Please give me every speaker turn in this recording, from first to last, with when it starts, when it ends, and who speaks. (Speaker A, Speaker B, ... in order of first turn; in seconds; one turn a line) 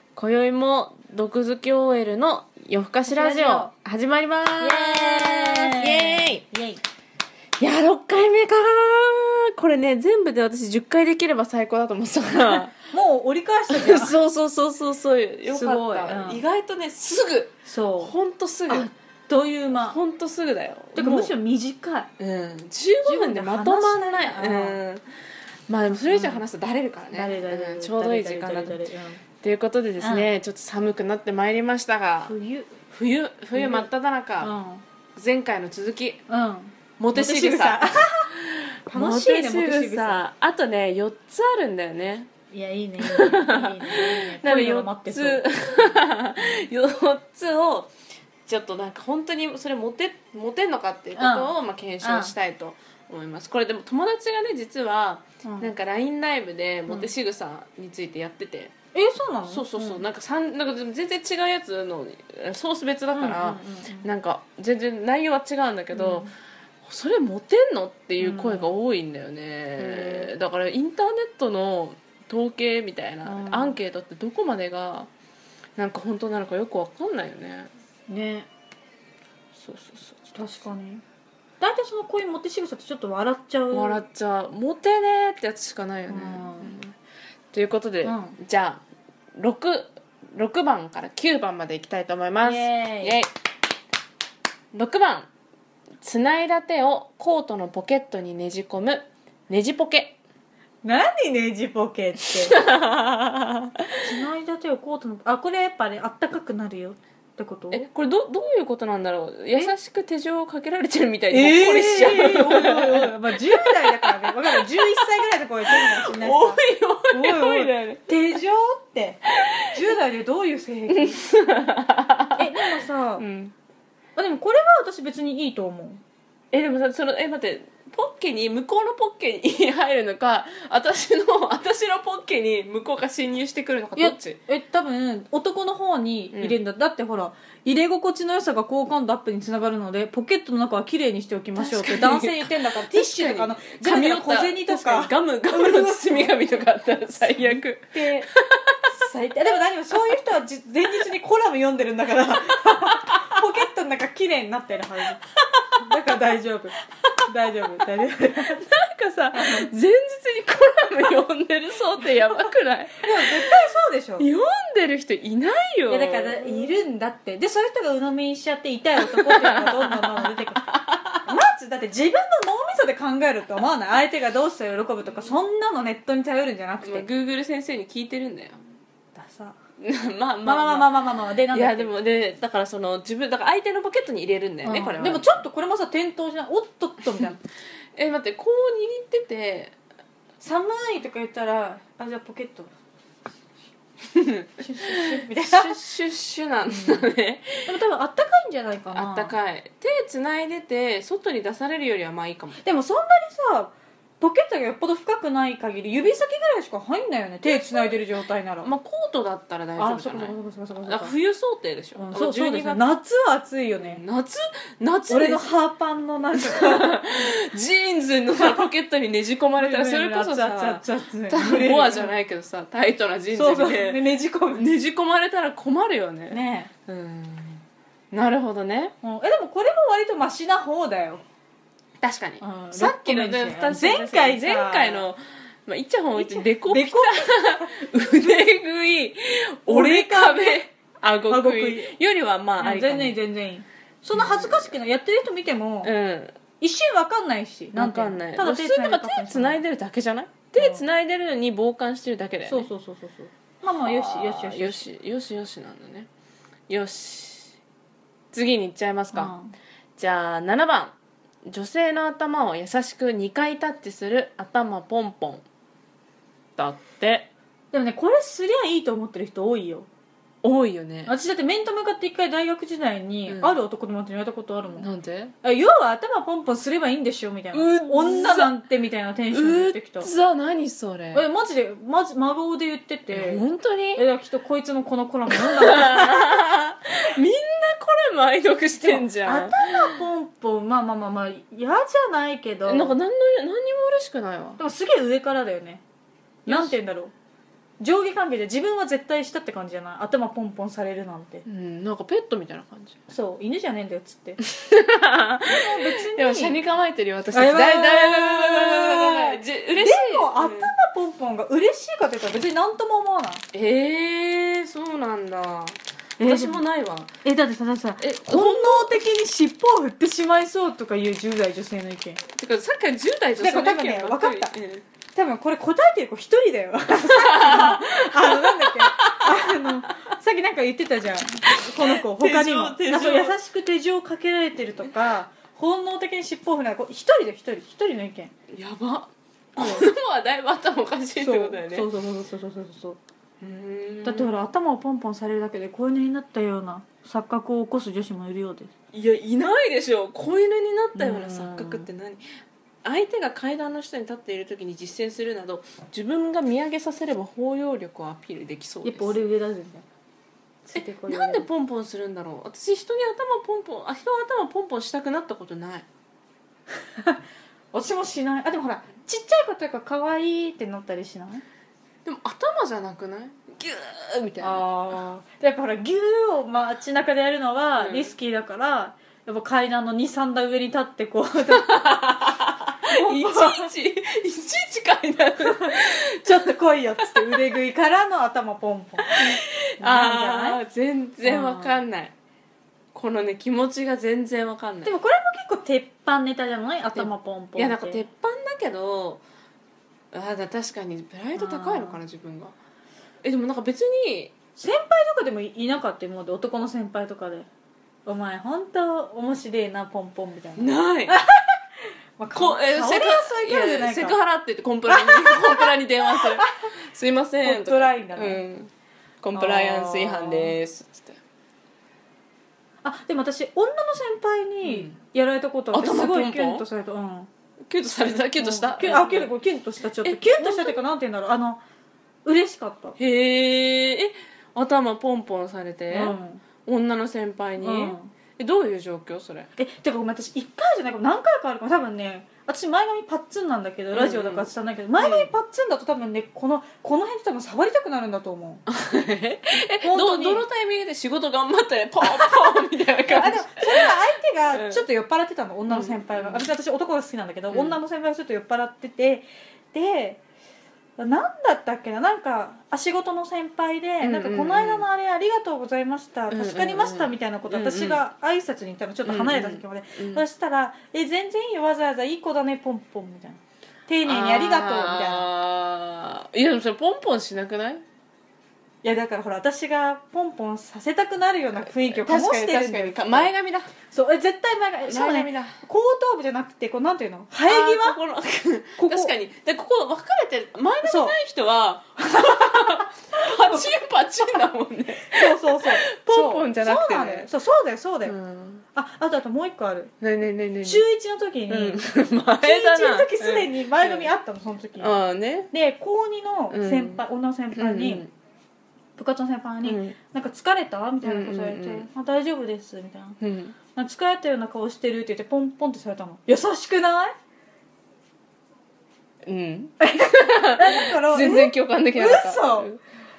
Speaker A: 0.1-6.4
Speaker B: 3.0-3.7
Speaker B: 4.6-6.8
Speaker A: 7.6-12.8
Speaker B: 12.8-14.2
Speaker A: 13.7-18.9
Speaker B: 15.5-16.4
Speaker B: 17.7-18.1
Speaker B: 18.7-20.0
Speaker A: 19.7-21.3
Speaker B: 20.9-22.1
Speaker A: 22.2-25.0
Speaker B: 23.1-24.8
Speaker A: 25.7-28.8
Speaker B: 26.0-26.4
Speaker B: 27.1-29.2
Speaker A: 29.4-32.3
Speaker B: 30.0-30.3
Speaker B: 32.2-32.8
Speaker A: 32.9-34.5
Speaker B: 33.5-33.9
Speaker B: 34.4-34.8
Speaker A: 35.2-36.2
Speaker B: 36.3-38.3
Speaker A: 37.0-42.3
Speaker B: 38.9-40.2
Speaker B: 42.5-46.6
Speaker A: 43.0-47.9
Speaker A: 48.5-58.7
Speaker B: 51.2-52.3
Speaker B: 55.4-55.7
Speaker B: 58.9-60.0
Speaker A: 59.4-66.3
Speaker B: 63.1-64.1
Speaker B: 65.9-66.3
Speaker A: 66.8-75.1
Speaker B: 68.2-68.7
Speaker B: 69.8-70.3
Speaker B: 73.2-73.8
Speaker A: 75.8-77.7
Speaker B: 78.1-78.5
Speaker B: 79.7-81.0
Speaker B: 81.6-84.0
Speaker A: 83.7-87.0
Speaker B: 86.1-86.8
Speaker A: 87.5-88.8
Speaker B: 88.0-88.4
Speaker A: 89.4-93.3
Speaker B: 92.4-93.2
Speaker A: 94.7-95.3
Speaker A: 96.0-100.2
Speaker B: 100.8-102.6
Speaker A: 102.5-104.0
Speaker B: 104.0-107.8
Speaker A: 107.7-115.1
Speaker B: 111.3-121.3
Speaker A: 115.7-118.0
Speaker A: 120.9-122.5
Speaker B: 122.4-123.3
Speaker A: 123.2-123.5
Speaker B: 124.2-126.0
Speaker A: 126.5-134.4
Speaker B: 133.9-146.4
Speaker A: 141.6-148.8
Speaker B: 147.3-148.3
Speaker B: 148.8-155.2
Speaker B: 155.8-158.6
Speaker A: 158.6-163.5
Speaker B: 159.3-159.7
Speaker B: 163.0-164.2
Speaker A: 164.2-166.8
Speaker B: 165.9-170.7
Speaker A: 169.0-171.2
Speaker B: 171.2-177.0
Speaker A: 176.8-178.6
Speaker B: 179.1-179.6
Speaker A: 179.8-181.0
Speaker B: 180.4-181.9
Speaker A: 181.5-185.4
Speaker B: 184.6-187.4
Speaker A: 187.9-189.7
Speaker B: 190.4-192.7
Speaker A: 194.1-197.8
Speaker B: 194.6-195.8
Speaker B: 196.7-197.1
Speaker B: 197.7-199.3
Speaker A: 198.9-202.6
Speaker B: 202.6-208.7
Speaker A: 207.4-208.0
Speaker A: 208.6-212.8
Speaker B: 209.8-211.1
Speaker B: 212.0-214.0
Speaker A: 213.8-215.5
Speaker B: 215.1-217.0
Speaker A: 216.3-224.0
Speaker B: 219.6-222.1
Speaker B: 223.3-224.7
Speaker A: 224.5-228.9
Speaker B: 226.3-226.7
Speaker B: 229.0-231.2
Speaker A: 232.0-243.2
Speaker B: 232.4-235.1
Speaker B: 236.1-238.4
Speaker B: 239.7-240.6
Speaker B: 241.3-241.9
Speaker B: 242.6-245.9
Speaker A: 244.1-244.6
Speaker A: 245.8-246.3
Speaker B: 246.6-249.6
Speaker A: 247.7-252.7
Speaker B: 250.6-250.8
Speaker B: 252.5-254.9
Speaker A: 253.6-256.1
Speaker A: 256.7-257.5
Speaker A: 258.3-259.3
Speaker B: 259.1-259.5
Speaker A: 260.0-260.9
Speaker A: 261.4-265.4
Speaker A: 266.6-267.3
Speaker B: 267.7-269.9
Speaker A: 270.4-271.1
Speaker B: 271.1-274.9
Speaker A: 273.3-273.5
Speaker A: 274.8-275.3
Speaker B: 275.4-280.1
Speaker A: 277.5-278.5
Speaker A: 279.3-281.2
Speaker B: 281.1-283.4
Speaker A: 283.1-284.0
Speaker B: 283.9-286.5
Speaker A: 285.3-290.0
Speaker B: 288.8-293.0
Speaker A: 292.6-294.6
Speaker B: 294.6-295.8
Speaker A: 296.4-296.8
Speaker B: 296.4-297.1
Speaker B: 297.8-301.4
Speaker A: 301.4-303.0
Speaker B: 303.1-304.4
Speaker A: 304.4-310.7
Speaker B: 305.4-306.6
Speaker B: 307.3-313.4
Speaker A: 313.5-317.1
Speaker B: 316.2-316.6
Speaker B: 317.2-322.2
Speaker A: 318.0-319.1
Speaker A: 322.4-324.8
Speaker B: 323.4-324.5
Speaker B: 325.1-338.3
Speaker A: 327.1-329.8
Speaker A: 331.5-333.3
Speaker A: 338.5-341.9
Speaker B: 339.6-339.9
Speaker B: 341.2-343.0
Speaker A: 343.4-344.4
Speaker B: 344.1-348.7
Speaker A: 348.9-352.2
Speaker B: 350.9-351.9
Speaker A: 352.8-359.1
Speaker B: 358.8-359.9
Speaker B: 360.6-361.5
Speaker A: 361.0-365.9
Speaker B: 367.7-371.4
Speaker A: 372.1-374.6
Speaker B: 374.4-382.2
Speaker A: 377.8-378.1
Speaker A: 381.5-387.6
Speaker B: 382.8-383.7
Speaker B: 385.4-390.6
Speaker A: 389.1-392.1
Speaker B: 391.2-391.8
Speaker A: 392.9-394.9
Speaker B: 394.8-398.0
Speaker A: 396.9-399.2
Speaker A: 400.1-402.5
Speaker B: 401.3-402.0
Speaker A: 403.2-404.3
Speaker B: 404.6-407.5
Speaker B: 408.1-411.6
Speaker A: 410.6-411.2
Speaker B: 412.2-414.2
Speaker A: 412.3-418.7
Speaker B: 414.9-416.7
Speaker B: 417.4-418.4
Speaker A: 419.2-421.2
Speaker B: 419.3-420.6
Speaker B: 422.8-427.3
Speaker A: 424.6-424.9
Speaker A: 425.7-426.6
Speaker A: 427.7-429.3
Speaker B: 428.1-431.6
Speaker A: 430.0-430.8
Speaker B: 432.2-432.9
Speaker A: 433.0-439.5
Speaker B: 435.9-436.4
Speaker B: 437.6-438.1
Speaker B: 439.6-448.6
Speaker A: 443.9-444.5
Speaker A: 445.0-445.3
Speaker A: 448.7-454.0
Speaker B: 449.8-450.4
Speaker B: 452.1-460.2
Speaker A: 454.5-454.8
Speaker A: 455.7-456.5
Speaker A: 457.5-457.8
Speaker B: 461.0-475.3
Speaker A: 464.0-464.9
Speaker A: 466.3-468.0
Speaker A: 469.1-470.2
Speaker A: 474.1-477.8
Speaker B: 478.8-483.3
Speaker A: 481.6-483.7
Speaker B: 483.8-488.0
Speaker A: 484.9-485.6
Speaker A: 487.4-497.3
Speaker B: 488.8-489.1
Speaker B: 490.8-491.2
Speaker B: 492.0-493.7
Speaker B: 495.0-498.1
Speaker A: 498.1-498.6
Speaker B: 498.7-499.9
Speaker A: 500.0-500.9
Speaker B: 500.6-504.9
Speaker A: 501.5-504.1
Speaker A: 504.8-505.5
Speaker B: 505.5-508.1
Speaker A: 506.5-507.0
Speaker A: 507.5-508.1
Speaker B: 509.0-513.2
Speaker A: 509.6-510.0
Speaker A: 511.0-511.9
Speaker A: 513.2-513.5
Speaker B: 513.7-517.1
Speaker A: 519.2-522.8
Speaker B: 519.8-522.7